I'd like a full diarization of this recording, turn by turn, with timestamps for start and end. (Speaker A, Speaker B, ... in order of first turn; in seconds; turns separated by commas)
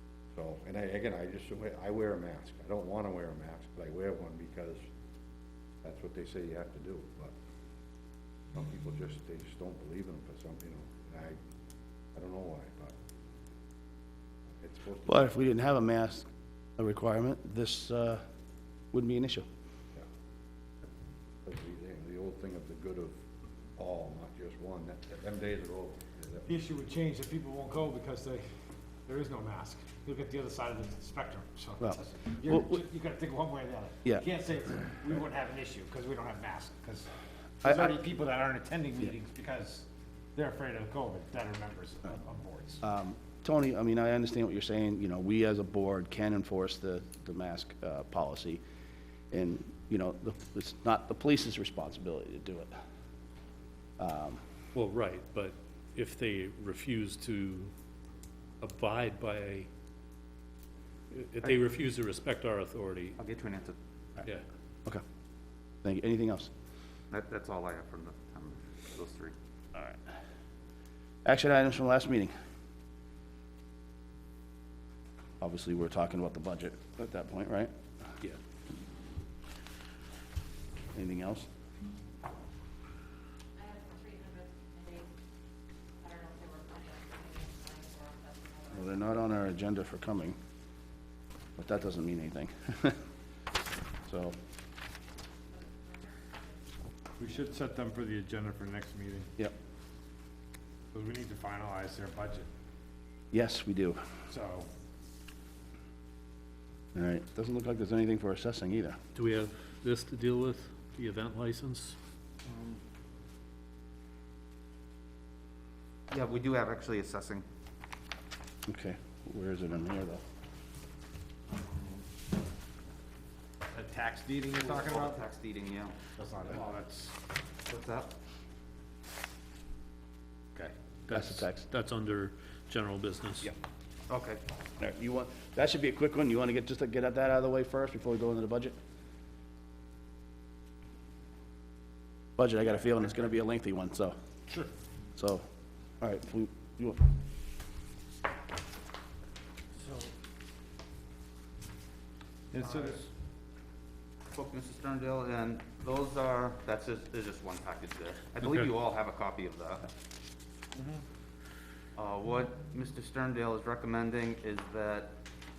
Speaker A: 0.3-4.8, Speaker A: 5.8-7.3, Speaker A: 8.5-11.4, Speaker A: 12.1-12.9, Speaker A: 14.6-15.3, Speaker B: 15.1-18.2, Speaker B: 18.9-19.4, Speaker A: 21.4-23.2, Speaker A: 23.8-26.5, Speaker C: 26.4-28.5, Speaker C: 29.1-37.1, Speaker B: 32.5-32.8, Speaker C: 37.6-42.8, Speaker B: 37.6-37.9, Speaker B: 42.8-48.6, Speaker B: 49.3-52.7, Speaker B: 54.0-54.4, Speaker D: 54.7-57.7, Speaker D: 58.6-59.7, Speaker D: 61.1-63.1, Speaker E: 63.2-63.8, Speaker B: 65.8-66.5, Speaker E: 67.1-69.3, Speaker B: 71.2-72.3, Speaker B: 75.4-77.7, Speaker B: 80.9-81.5, Speaker F: 83.6-85.1, Speaker F: 86.0-89.1, Speaker B: 88.7-90.4, Speaker B: 91.6-93.0, Speaker B: 94.0-94.4, Speaker F: 95.5-96.4, Speaker C: 97.2-99.3, Speaker C: 100.9-102.5, Speaker B: 103.3-104.0, Speaker C: 104.3-104.7, Speaker B: 106.9-109.0, Speaker D: 109.2-112.0, Speaker E: 112.5-112.8, Speaker E: 116.1-117.5, Speaker B: 118.7-120.2, Speaker E: 121.7-122.0, Speaker C: 123.7-125.2, Speaker E: 124.6-126.0, Speaker C: 126.2-127.1, Speaker E: 127.7-128.1, Speaker D: 131.1-133.5, Speaker B: 131.1-131.6, Speaker E: 134.1-134.4, Speaker B: 134.8-138.8, Speaker B: 142.4-144.2, Speaker C: 144.5-144.7, Speaker B: 145.2-145.4, Speaker B: 146.0-147.0, Speaker C: 149.8-150.1, Speaker C: 152.5-153.1, Speaker E: 154.3-159.9, Speaker E: 161.9-165.2